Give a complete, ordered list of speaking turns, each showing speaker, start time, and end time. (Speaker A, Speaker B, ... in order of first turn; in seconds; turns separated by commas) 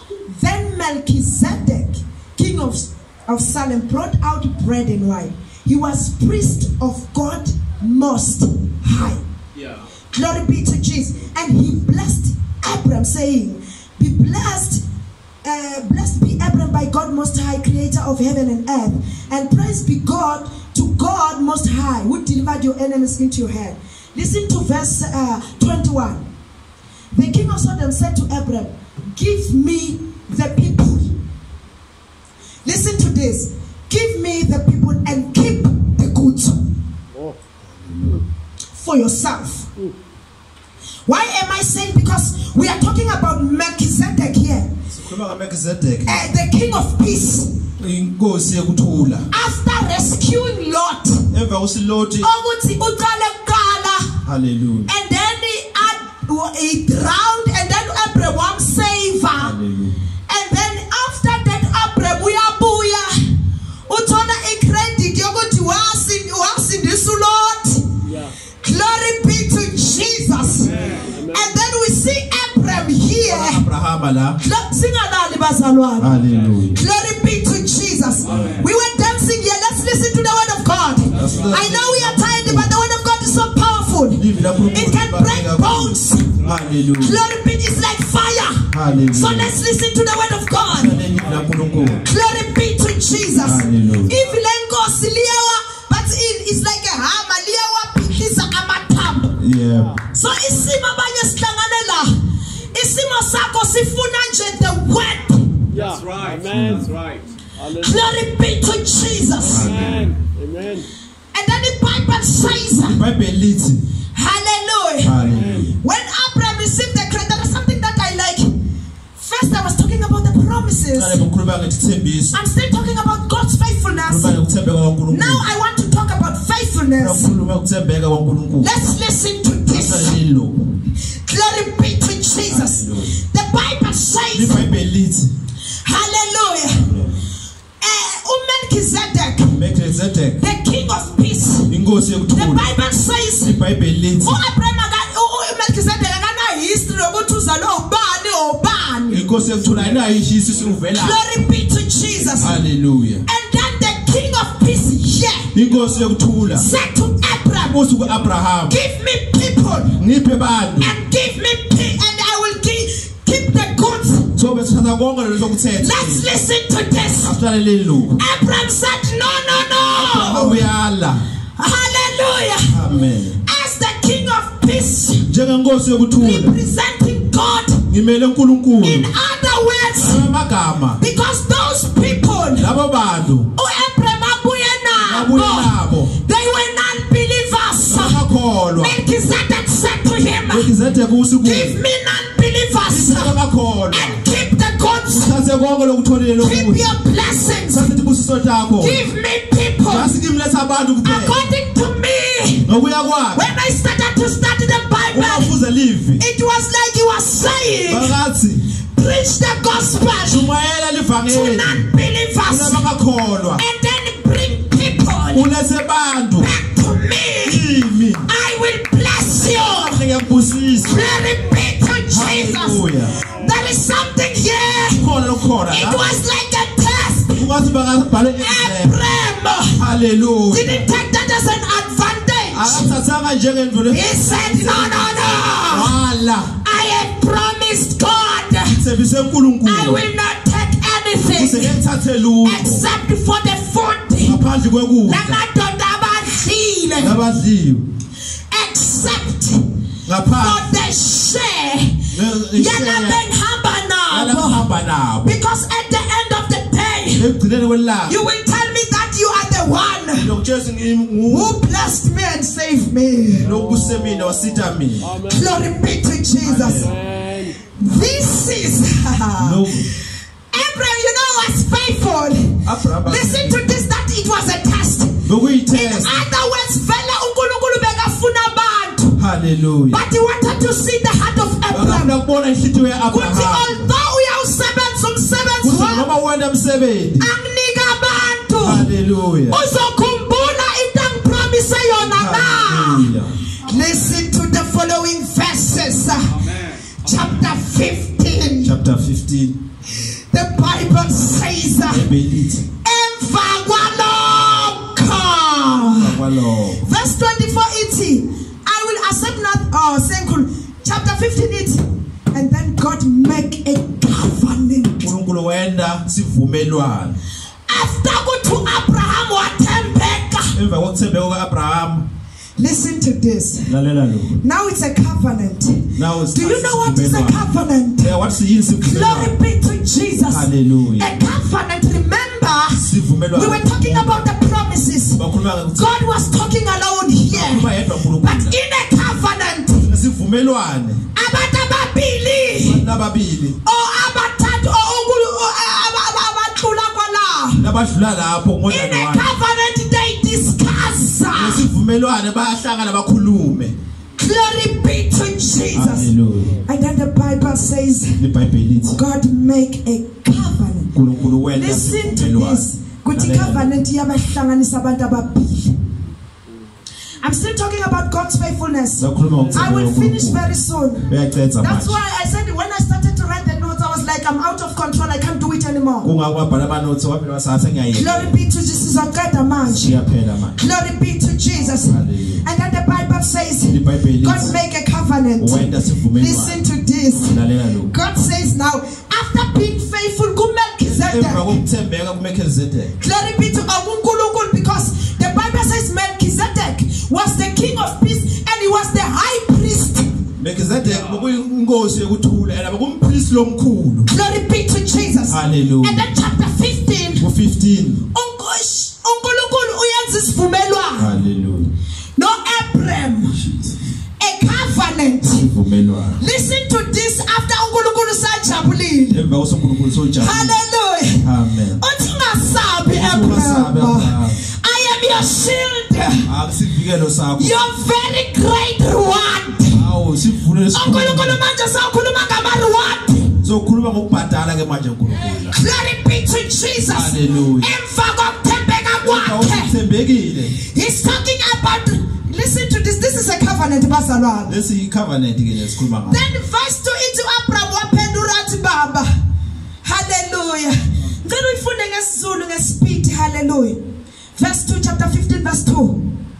Speaker A: 0.3-9.2, Speaker B: 9.5-9.8, Speaker A: 10.1-14.8, Speaker A: 15.4-26.2, Speaker A: 27.1-31.2, Speaker A: 32.6-36.6, Speaker C: 37.1-37.4, Speaker D: 37.9-38.2, Speaker A: 38.8-39.7, Speaker A: 41.1-44.7, Speaker D: 44.9-46.3, Speaker A: 46.0-47.5, Speaker D: 47.8-49.3, Speaker A: 49.3-51.3, Speaker D: 51.3-52.3, Speaker A: 52.2-54.1, Speaker D: 54.2-54.9, Speaker A: 54.9-59.5, Speaker D: 59.4-60.0, Speaker A: 60.3-63.3, Speaker A: 63.9-67.9, Speaker C: 68.0-68.3, Speaker A: 68.6-73.6, Speaker B: 70.5-71.2, Speaker C: 70.7-71.6, Speaker D: 73.2-74.4, Speaker A: 74.4-76.2, Speaker D: 76.0-76.8, Speaker B: 76.0-76.6, Speaker A: 76.7-86.4, Speaker B: 78.2-78.7, Speaker D: 78.2-78.6, Speaker B: 81.1-81.6, Speaker D: 81.1-82.7, Speaker D: 84.2-87.2, Speaker B: 86.4-86.7, Speaker A: 87.0-91.0, Speaker D: 88.7-89.6, Speaker B: 88.8-89.2, Speaker D: 90.7-92.0, Speaker B: 90.9-92.1, Speaker A: 92.0-99.4, Speaker D: 93.4-94.1, Speaker B: 93.9-94.3, Speaker D: 99.4-100.0, Speaker C: 99.7-100.0, Speaker A: 100.1-102.2, Speaker A: 102.7-105.6, Speaker B: 105.7-107.3, Speaker C: 105.7-106.9, Speaker D: 106.5-106.9, Speaker C: 107.5-108.0, Speaker A: 107.8-109.8, Speaker D: 109.4-110.1, Speaker C: 109.5-110.9, Speaker A: 111.3-113.0, Speaker D: 112.8-113.8, Speaker A: 114.1-115.2, Speaker D: 115.0-115.8, Speaker C: 115.1-115.7, Speaker A: 115.7-118.5, Speaker A: 119.2-121.2, Speaker D: 120.9-122.4, Speaker A: 122.3-124.4, Speaker D: 124.1-125.4, Speaker A: 125.1-127.4, Speaker D: 127.0-128.7, Speaker A: 128.6-130.2, Speaker D: 129.7-130.7, Speaker A: 131.2-134.6, Speaker D: 132.5-133.2, Speaker D: 134.3-135.3, Speaker A: 135.8-136.9, Speaker D: 136.8-137.2, Speaker A: 137.8-139.6, Speaker D: 139.5-140.4, Speaker A: 140.4-141.7, Speaker D: 141.7-142.7, Speaker A: 142.3-143.6, Speaker D: 143.4-144.4, Speaker A: 144.2-149.2, Speaker D: 149.1-151.2, Speaker B: 149.5-150.8, Speaker A: 150.9-152.6, Speaker D: 152.4-153.2, Speaker A: 153.2-155.5, Speaker D: 155.5-156.7, Speaker B: 155.6-156.1, Speaker A: 156.5-157.9, Speaker D: 157.7-158.8, Speaker B: 158.1-158.3, Speaker A: 158.7-160.0, Speaker D: 160.0-160.9, Speaker A: 160.8-164.3, Speaker D: 164.3-166.3, Speaker A: 165.8-167.4, Speaker D: 167.2-168.2, Speaker A: 168.2-170.7, Speaker D: 169.9-171.2, Speaker A: 171.6-172.8, Speaker D: 172.7-173.4, Speaker A: 173.4-175.3, Speaker D: 175.3-176.6, Speaker A: 176.2-177.9, Speaker D: 177.9-179.1, Speaker A: 178.8-180.3, Speaker D: 179.9-181.0, Speaker A: 181.0-182.7, Speaker D: 182.6-183.5, Speaker A: 183.5-188.2, Speaker D: 185.0-186.1, Speaker D: 187.9-188.9, Speaker A: 188.7-190.7, Speaker D: 190.5-191.8, Speaker A: 191.4-193.4, Speaker D: 192.9-194.2, Speaker A: 193.9-195.4, Speaker D: 195.1-196.8, Speaker A: 196.4-198.0, Speaker D: 197.7-199.1, Speaker A: 198.8-200.1, Speaker D: 199.8-201.4, Speaker A: 201.0-202.7, Speaker D: 202.6-203.5, Speaker A: 203.3-205.5, Speaker D: 205.1-206.2, Speaker A: 206.2-208.1, Speaker D: 207.9-208.6, Speaker A: 208.9-210.5, Speaker D: 210.2-211.9, Speaker A: 211.3-212.8, Speaker D: 212.5-213.6, Speaker A: 213.6-215.5, Speaker D: 215.3-216.5, Speaker A: 216.4-217.6, Speaker D: 217.4-218.3, Speaker A: 218.2-220.1, Speaker D: 219.4-221.2, Speaker A: 220.8-225.1, Speaker D: 222.1-223.2, Speaker D: 224.9-226.2, Speaker A: 225.7-227.5, Speaker D: 227.3-229.0, Speaker A: 228.3-229.8, Speaker D: 229.7-230.9, Speaker A: 230.5-232.9, Speaker D: 232.5-236.6, Speaker A: 233.9-235.9, Speaker A: 236.6-238.8, Speaker D: 238.7-240.1, Speaker A: 239.6-241.8, Speaker D: 241.3-242.8, Speaker A: 242.4-244.4, Speaker D: 244.2-245.4, Speaker A: 245.1-247.2, Speaker D: 247.0-247.8, Speaker A: 248.5-249.6, Speaker D: 250.1-250.7, Speaker A: 250.3-252.0, Speaker D: 252.1-253.2, Speaker A: 252.5-254.7, Speaker D: 254.1-255.4, Speaker A: 255.2-257.3, Speaker D: 257.1-258.1, Speaker A: 258.1-260.3, Speaker D: 260.1-261.5, Speaker A: 261.3-263.5, Speaker D: 263.4-265.1, Speaker C: 263.4-265.6, Speaker A: 265.3-266.9, Speaker D: 266.4-266.9, Speaker C: 266.5-267.6, Speaker A: 267.7-269.9, Speaker D: 269.4-269.8, Speaker A: 270.5-279.2, Speaker D: 272.6-273.6, Speaker D: 275.2-276.2, Speaker D: 279.2-280.0, Speaker A: 279.9-282.1, Speaker D: 281.7-283.9, Speaker A: 283.1-286.1, Speaker D: 285.6-287.3, Speaker A: 287.2-288.9, Speaker D: 288.6-289.6, Speaker A: 289.5-296.4, Speaker D: 291.9-293.4, Speaker B: 296.2-297.5, Speaker A: 297.0-298.7, Speaker D: 298.6-299.6, Speaker A: 300.3-302.1, Speaker D: 301.9-302.6, Speaker A: 302.8-306.1, Speaker D: 305.9-306.8, Speaker A: 306.8-315.1, Speaker D: 315.0-317.2, Speaker A: 317.7-320.6, Speaker D: 320.5-322.1, Speaker A: 322.6-323.7, Speaker D: 323.7-324.4, Speaker A: 324.4-328.2, Speaker D: 325.9-327.4, Speaker D: 328.0-329.3, Speaker A: 328.8-335.2, Speaker D: 330.3-331.2, Speaker D: 332.7-334.2, Speaker D: 335.2-335.9, Speaker A: 335.7-339.9, Speaker D: 337.3-338.5, Speaker D: 339.9-341.0, Speaker A: 341.1-342.8, Speaker D: 342.6-343.6, Speaker A: 343.6-347.6, Speaker D: 347.5-349.3, Speaker A: 348.7-351.7, Speaker D: 351.3-353.7, Speaker A: 354.2-356.1, Speaker D: 355.7-356.6, Speaker A: 356.6-358.2, Speaker D: 358.2-359.0, Speaker A: 358.9-360.9, Speaker D: 360.9-363.7, Speaker A: 361.5-365.9, Speaker A: 367.2-371.1, Speaker D: 369.0-370.5, Speaker C: 369.4-369.7, Speaker D: 371.1-372.0, Speaker A: 371.6-376.1, Speaker D: 376.0-378.3, Speaker A: 377.9-380.0, Speaker D: 379.6-380.6, Speaker A: 380.6-391.6, Speaker D: 381.8-382.4, Speaker D: 383.7-384.5, Speaker D: 385.4-386.6, Speaker D: 387.3-387.9, Speaker D: 390.8-392.9, Speaker A: 393.0-400.2, Speaker D: 400.4-404.1, Speaker B: 400.8-401.3, Speaker A: 404.1-407.2, Speaker D: 405.3-406.1, Speaker D: 407.2-408.0, Speaker A: 408.1-411.1, Speaker D: 411.0-411.7, Speaker A: 412.2-413.4, Speaker D: 413.3-413.7, Speaker A: 414.2-415.5, Speaker D: 415.4-416.2, Speaker A: 416.2-419.2, Speaker D: 419.1-420.6, Speaker A: 420.2-421.3, Speaker D: 421.2-421.8, Speaker A: 421.8-426.3, Speaker D: 422.9-424.4, Speaker D: 426.2-427.7, Speaker A: 427.4-429.9, Speaker D: 429.7-431.4, Speaker A: 430.7-433.4, Speaker D: 433.4-435.6, Speaker A: 435.3-439.7, Speaker D: 436.9-437.7, Speaker D: 439.0-440.5, Speaker A: 440.6-444.5, Speaker D: 444.5-446.2, Speaker A: 446.1-449.1, Speaker A: 449.8-453.8, Speaker A: 454.4-456.1